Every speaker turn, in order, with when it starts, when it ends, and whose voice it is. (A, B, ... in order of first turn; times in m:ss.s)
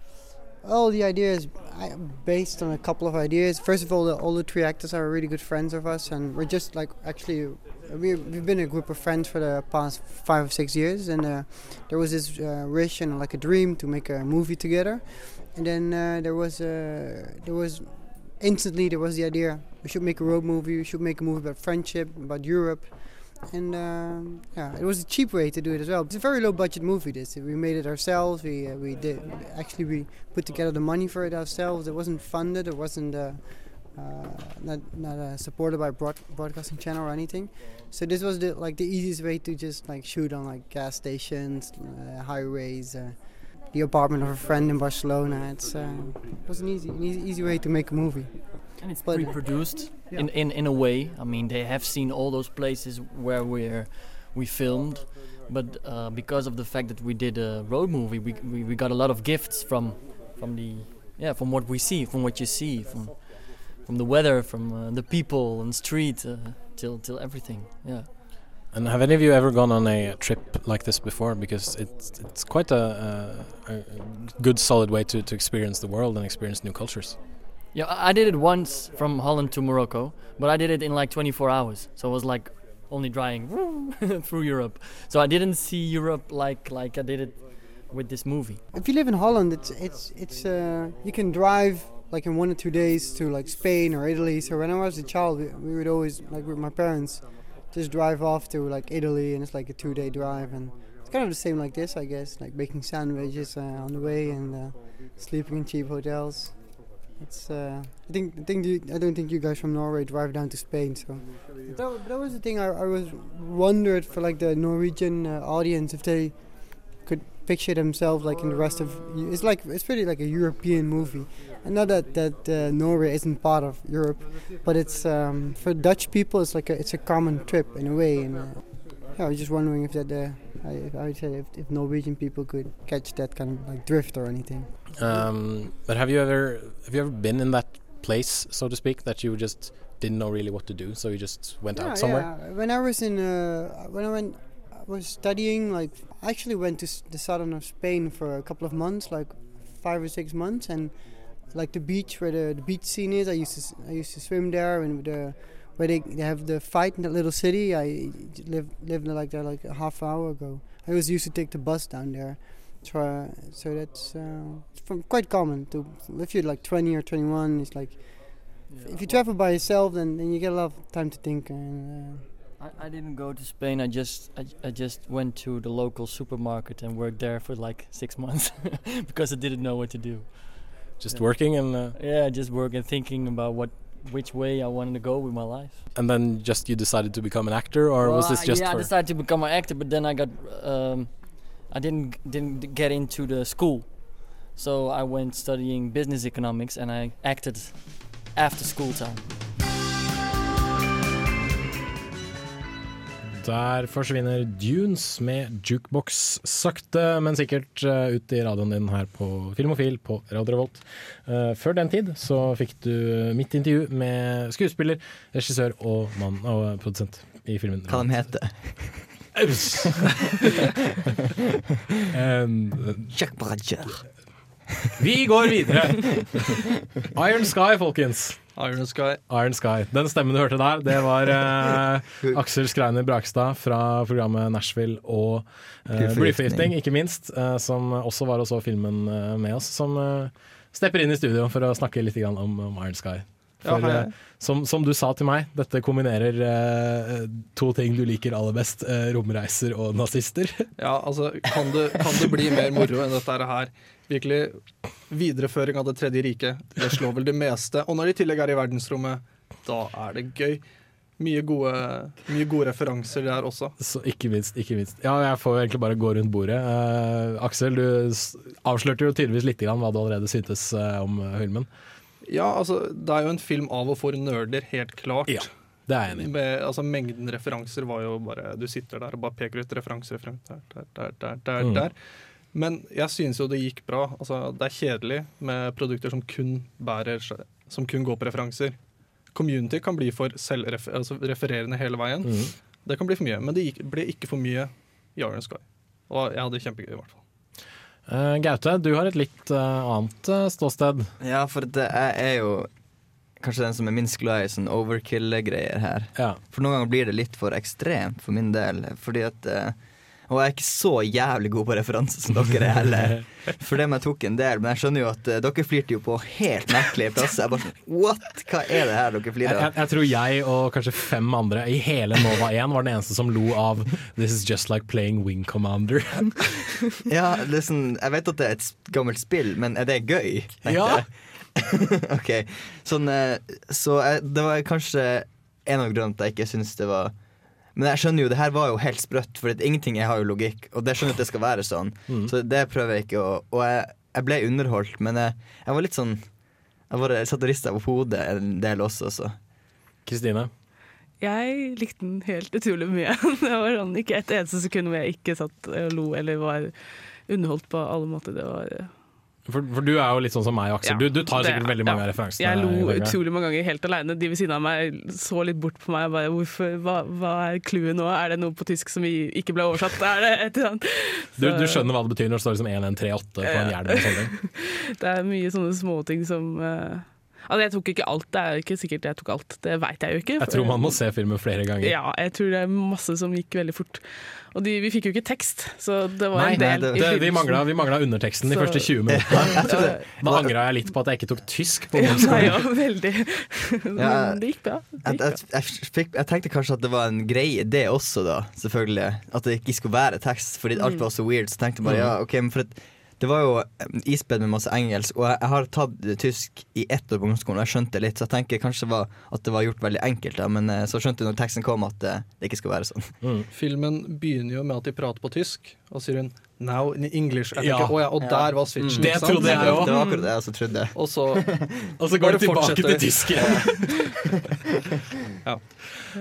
0:00.6-0:50.2 A
0:48.8-1:08.1 B
1:08.7-1:17.2 C
1:17.7-1:28.6 B
1:28.7-1:46.6 A
1:47.2-2:15.1 A
2:14.9-2:22.3 C
2:21.7-2:52.3 A
2:48.7-2:49.2 B
2:52.6-3:05.8 B
3:01.0-3:02.0 C
3:05.9-3:08.9 C
3:08.0-3:19.3 B
3:23.4-3:38.4 C
3:37.9-3:39.0 D
3:39.4-3:40.3 C
3:42.1-3:43.1 C
3:43.1-3:44.0 D
3:44.9-3:46.5 C
3:47.1-3:48.7 C
3:48.6-3:49.2 E
3:49.3-4:10.7 C
3:55.9-3:56.7 D
4:03.6-4:04.1 E
4:10.8-4:20.6 E
4:21.2-4:23.7 E
4:23.8-4:31.7 C
4:32.2-4:35.5 E
4:35.3-4:36.3 C
4:36.0-4:42.0 E
4:41.6-4:41.9 C
4:42.5-4:48.8 E
4:49.3-4:57.2 E
4:52.2-4:52.5 C
4:58.1-5:01.1 C
5:01.2-5:02.7 D
5:03.4-5:19.7 D
5:19.4-5:26.6 C
5:27.1-5:37.1 D
5:30.7-5:31.0 C
5:37.7-5:46.3 D
5:46.9-5:49.4 D
5:50.0-5:50.5 C
5:51.2-5:56.7 F
5:57.3-5:58.9 F
5:59.5-6:03.2 C
6:00.8-6:11.8 F
6:11.4-6:14.4 C
6:13.4-6:21.2 F
6:20.4-6:22.0 C
6:21.8-6:27.8 F
6:26.3-6:32.6 C
6:26.6-6:27.2 D
6:28.4-6:30.0 F
6:29.1-6:30.5 D
6:32.0-6:35.4 F
6:34.0-6:53.2 D
6:40.8-6:41.0 F
6:41.8-6:42.1 C
6:53.2-6:53.5 C
6:53.5-6:59.8 E
6:57.5-7:00.0 C
6:58.2-7:01.7 D
6:59.5-7:00.3 F
7:00.9-7:03.8 E
7:02.0-7:04.0 C